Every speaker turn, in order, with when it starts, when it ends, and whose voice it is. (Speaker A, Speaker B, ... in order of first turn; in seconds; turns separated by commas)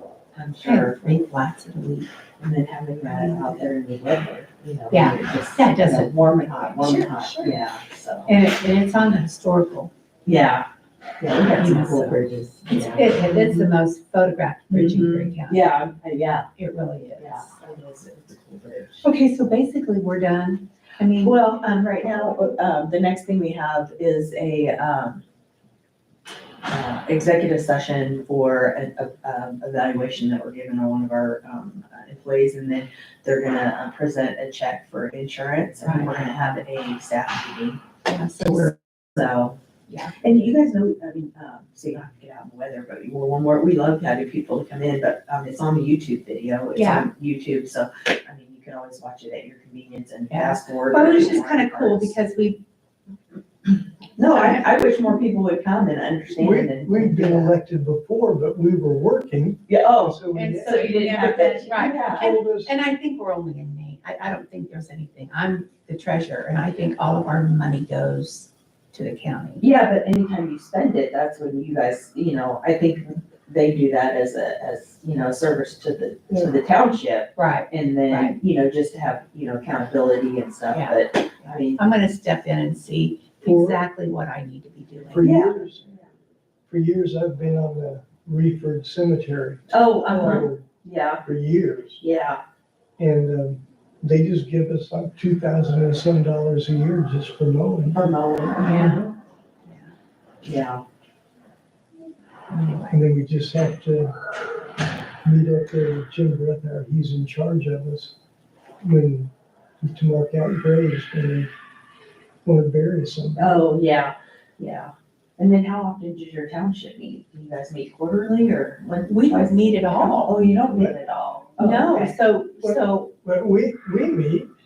Speaker A: 0.3-1.0, Speaker B: 0.6-2.1, Speaker A: 2.4-8.4, Speaker B: 3.1-3.5, Speaker B: 4.9-6.1, Speaker B: 6.7-7.6, Speaker B: 8.2-9.9, Speaker A: 10.2-10.7, Speaker A: 11.2-13.7, Speaker B: 11.5-15.7, Speaker A: 14.7-16.5, Speaker B: 16.6-17.5, Speaker A: 17.2-19.1, Speaker B: 19.0-21.4, Speaker A: 21.2-25.2, Speaker A: 26.7-37.8, Speaker B: 35.8-36.2, Speaker B: 38.0-38.7, Speaker A: 38.4-39.6, Speaker B: 39.9-40.1, Speaker A: 40.2-52.1, Speaker B: 46.7-47.1, Speaker B: 50.3-52.6, Speaker A: 54.2-57.5, Speaker B: 54.2-54.7, Speaker C: 56.4-62.7, Speaker A: 59.7-62.3, Speaker B: 60.3-69.6, Speaker A: 69.6-82.0, Speaker C: 76.3-76.5, Speaker B: 77.3-78.4, Speaker B: 80.7-85.6, Speaker C: 83.4-83.8, Speaker C: 85.1-85.8, Speaker A: 85.2-86.1, Speaker C: 86.7-90.7, Speaker A: 89.7-91.2, Speaker C: 91.2-92.0, Speaker A: 92.0-92.4, Speaker C: 93.0-98.1, Speaker A: 97.9-99.1, Speaker B: 98.6-99.0, Speaker A: 100.4-100.8, Speaker A: 102.5-102.9, Speaker C: 102.9-104.1, Speaker C: 105.2-108.1, Speaker C: 108.8-111.5, Speaker C: 112.4-113.5, Speaker A: 113.3-122.2, Speaker B: 119.0-120.3, Speaker C: 120.7-121.0, Speaker B: 121.6-123.1, Speaker C: 122.6-124.5